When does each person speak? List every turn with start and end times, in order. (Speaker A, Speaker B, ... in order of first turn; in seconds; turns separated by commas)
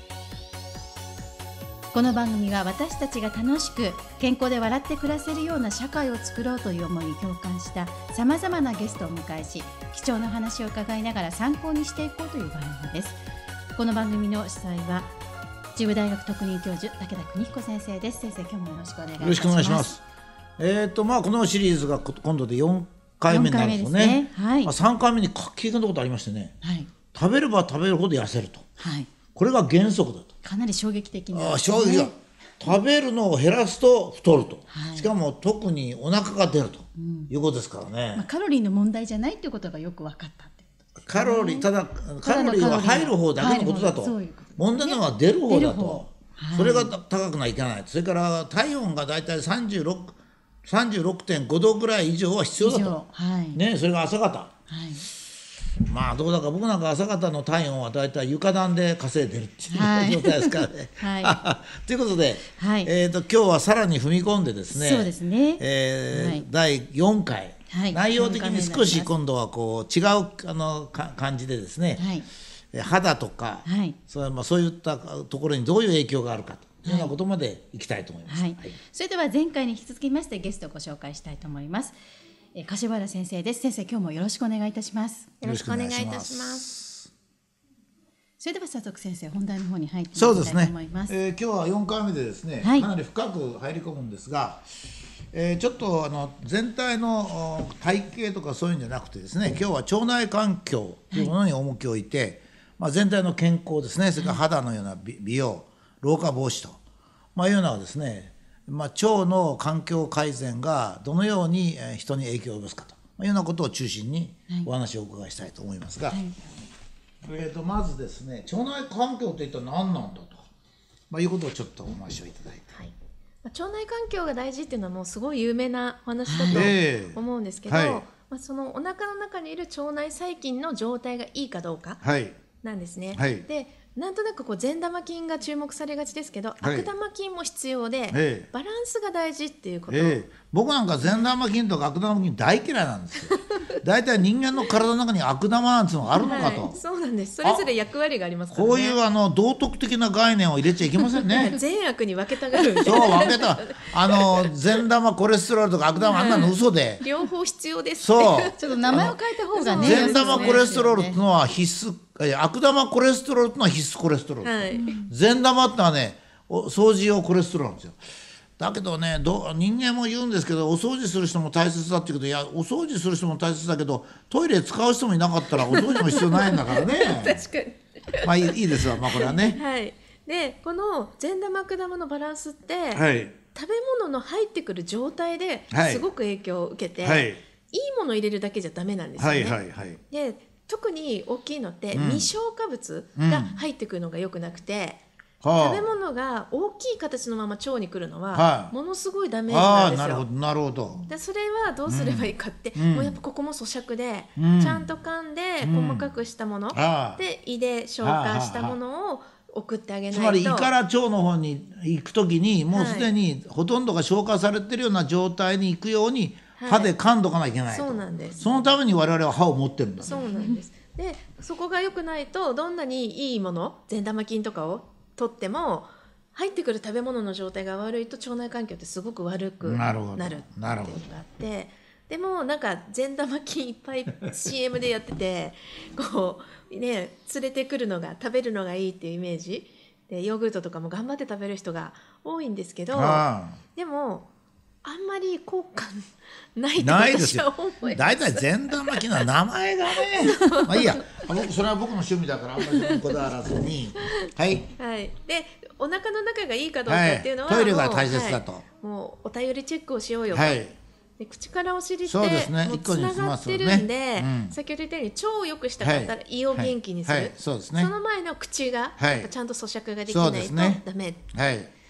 Speaker A: 1.9-13.2, Speaker A: 13.8-15.1, Speaker A: 15.8-20.0, Speaker B: 19.2-20.0, Speaker B: 20.6-26.5, Speaker A: 23.3-24.7, Speaker A: 26.6-26.9, Speaker B: 27.1-28.7, Speaker A: 28.8-29.1, Speaker B: 29.3-30.3, Speaker A: 30.4-32.1, Speaker B: 31.3-38.3, Speaker A: 34.7-35.1, Speaker A: 37.0-37.3, Speaker A: 38.1-41.7, Speaker B: 41.1-53.0, Speaker A: 42.2-46.9, Speaker A: 52.6-53.6, Speaker B: 53.5-54.6, Speaker A: 54.7-55.1, Speaker B: 55.9-72.1, Speaker A: 59.7-61.4, Speaker A: 62.6-62.9, Speaker A: 64.7-66.5, Speaker A: 67.7-69.1, Speaker A: 72.0-72.3, Speaker B: 72.7-78.8, Speaker A: 73.7-74.0, Speaker A: 76.8-77.1, Speaker A: 78.3-82.0, Speaker A: 82.5-85.4, Speaker C: 85.4-86.7, Speaker B: 85.4-87.1, Speaker A: 88.4-91.1, Speaker B: 90.2-94.7, Speaker A: 92.6-92.9, Speaker B: 95.3-106.8, Speaker B: 107.3-116.2, Speaker A: 116.1-116.4, Speaker B: 117.2-120.5, Speaker B: 121.1-122.7, Speaker C: 122.7-132.0, Speaker A: 126.3-126.7, Speaker B: 126.5-128.0, Speaker B: 132.0-132.4, Speaker C: 132.6-140.2, Speaker B: 133.2-133.5, Speaker B: 136.6-136.9, Speaker B: 138.1-138.5, Speaker B: 139.9-146.8, Speaker C: 143.3-143.7, Speaker C: 146.2-149.0, Speaker B: 147.4-147.7, Speaker B: 148.5-151.6, Speaker C: 151.4-154.5, Speaker B: 152.8-157.0, Speaker C: 156.1-160.7, Speaker B: 158.0-159.2, Speaker A: 158.6-161.2, Speaker B: 159.7-168.0, Speaker C: 164.4-164.9, Speaker A: 164.8-165.1, Speaker B: 168.6-177.4, Speaker C: 175.7-195.0, Speaker B: 178.2-179.6, Speaker B: 182.9-183.4, Speaker B: 185.7-186.0, Speaker B: 187.0-187.4, Speaker B: 189.2-190.0, Speaker B: 191.9-192.3, Speaker B: 193.2-193.5, Speaker B: 195.4-195.8, Speaker C: 195.5-200.3, Speaker B: 198.3-198.7, Speaker B: 199.5-201.1, Speaker C: 201.1-210.7, Speaker B: 201.9-203.2, Speaker B: 204.4-204.9, Speaker B: 205.6-206.1, Speaker B: 206.7-207.2, Speaker B: 208.0-208.8, Speaker B: 210.1-220.3, Speaker C: 212.7-213.1, Speaker C: 216.6-216.9, Speaker C: 217.7-218.7, Speaker C: 220.0-244.3, Speaker B: 229.6-231.0, Speaker B: 242.9-243.6, Speaker C: 244.8-249.1, Speaker B: 246.8-254.7, Speaker C: 250.0-251.3, Speaker C: 252.6-253.2, Speaker C: 254.0-260.6, Speaker B: 256.9-258.6, Speaker B: 260.3-260.8, Speaker C: 261.2-271.2, Speaker B: 262.1-264.6, Speaker B: 265.8-267.9, Speaker B: 269.0-269.3, Speaker B: 270.1-271.7